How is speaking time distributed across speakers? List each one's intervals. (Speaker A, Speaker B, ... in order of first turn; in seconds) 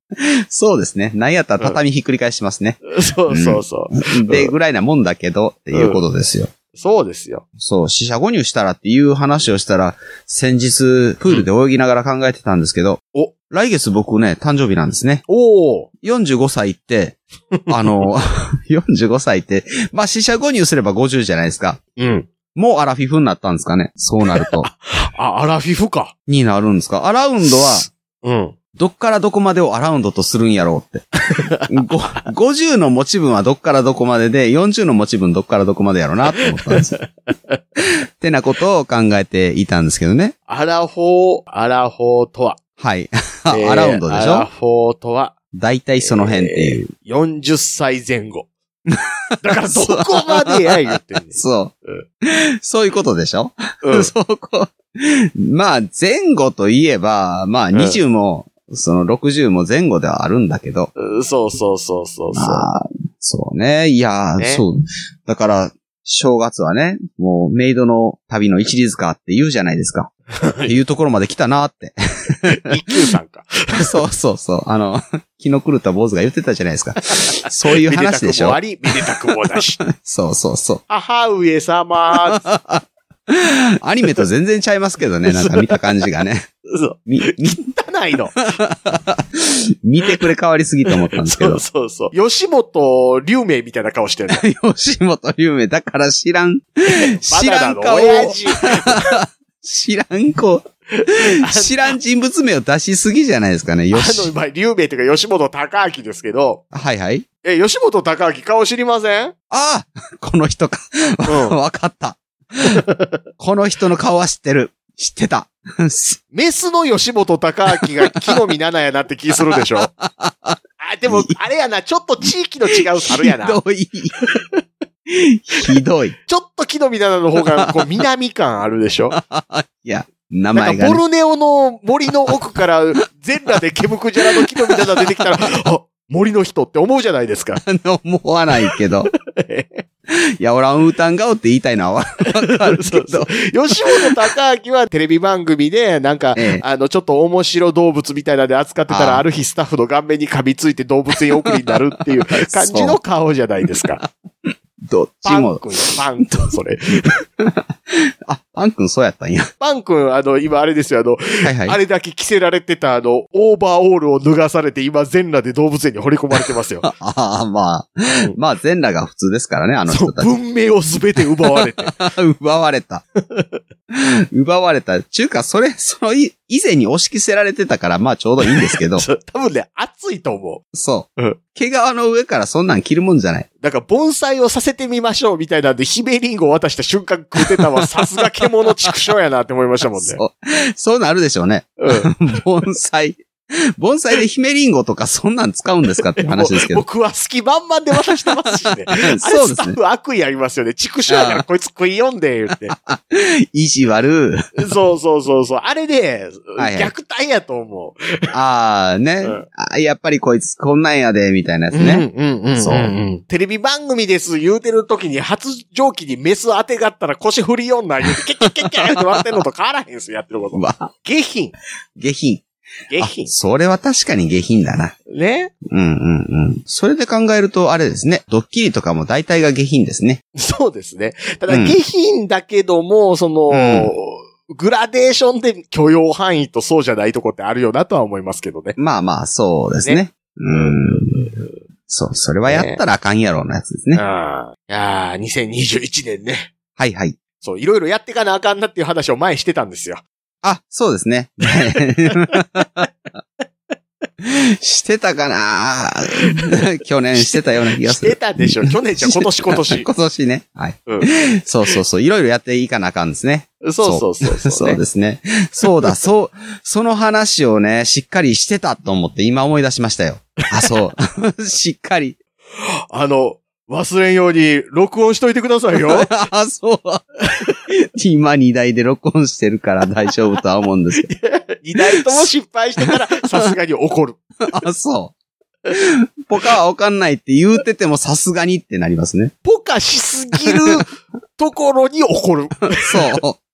Speaker A: 0.2-6.5, 7.6-15.2, 16.0-21.8, 22.5-24.7, 26.3-27.9, 28.8-31.0, 31.7-37.0, 37.8-40.3, 42.8-44.5, 45.5-46.9, 48.9-50.6, 51.3-60.9, 62.4-70.1, 70.7-72.5, 73.8-79.1, 79.8-80.8, 82.3-86.5, 87.1-87.7, 88.4-91.6, 94.3-104.3, 106.7-107.2, 109.5-112.8, 113.4-116.2, 119.5-121.4, 123.0-124.2, 125.1-126.1, 129.1-131.0, 134.2-135.3, 137.6-139.1, 140.1-143.3, 143.9-144.2, 146.3-146.6, 148.9-149.2, 152.4-153.0, 154.9-155.7, 156.2-156.5, 157.4-159.5, 161.4-161.8, 166.8-170.3, 171.2-173.0, 173.9-179.1, 180.7-183.5, 187.4-187.8, 188.7-189.1, 190.0-196.8, 198.9-199.8, 201.1-201.4, 202.5-204.6, 206.6-206.9, 208.3-212.9, 220.5-220.9, 222.0-222.5, 223.0-224.9, 225.7-230.2, 231.5-231.8, 233.5-233.9, 238.8-241.3, 241.9-244.0, 246.8-247.2, 250.4-252.9, 254.2-272.2, 275.9-277.1, 277.7-281.1, 281.8-282.3, 284.4-285.1, 285.7-289.3, 292.8-293.4
Speaker B: 2.9-4.5, 5.7-6.0, 6.7-7.4, 15.3-15.9, 22.0-22.3, 24.4-26.1, 27.5-28.5, 31.3-31.8, 36.6-37.6, 40.5-42.6, 43.5-45.3, 46.0-48.5, 49.4-52.0, 53.8-54.1, 57.7-58.0, 61.0-62.7, 64.4-64.6, 70.4-70.7, 72.5-73.9, 77.3-79.8, 80.9-82.5, 85.2-85.8, 86.7-88.4, 90.9-94.4, 96.9-99.1, 101.0-101.9, 103.9-106.6, 107.4-109.3, 111.2-111.5, 112.9-113.1, 116.3-119.9, 120.8-123.6, 124.2-124.6, 126.3-129.2, 130.5-137.6, 139.3-139.8, 142.3-154.0, 155.2-157.2, 159.6-166.9, 169.9-171.9, 173.3-173.6, 178.4-180.6, 183.6-190.2, 191.8-192.1, 196.2-202.7, 204.6-208.3, 211.7-221.5, 222.9-223.3, 225.1-225.5, 230.3-238.8, 239.8-241.4, 242.4-242.8, 243.9-246.5, 247.4-250.0, 252.2-252.7, 256.2-256.5, 257.2-259.9, 260.9-261.1, 263.6-264.8, 272.9-276.1, 277.3-277.6, 281.1-284.2, 289.4-293.2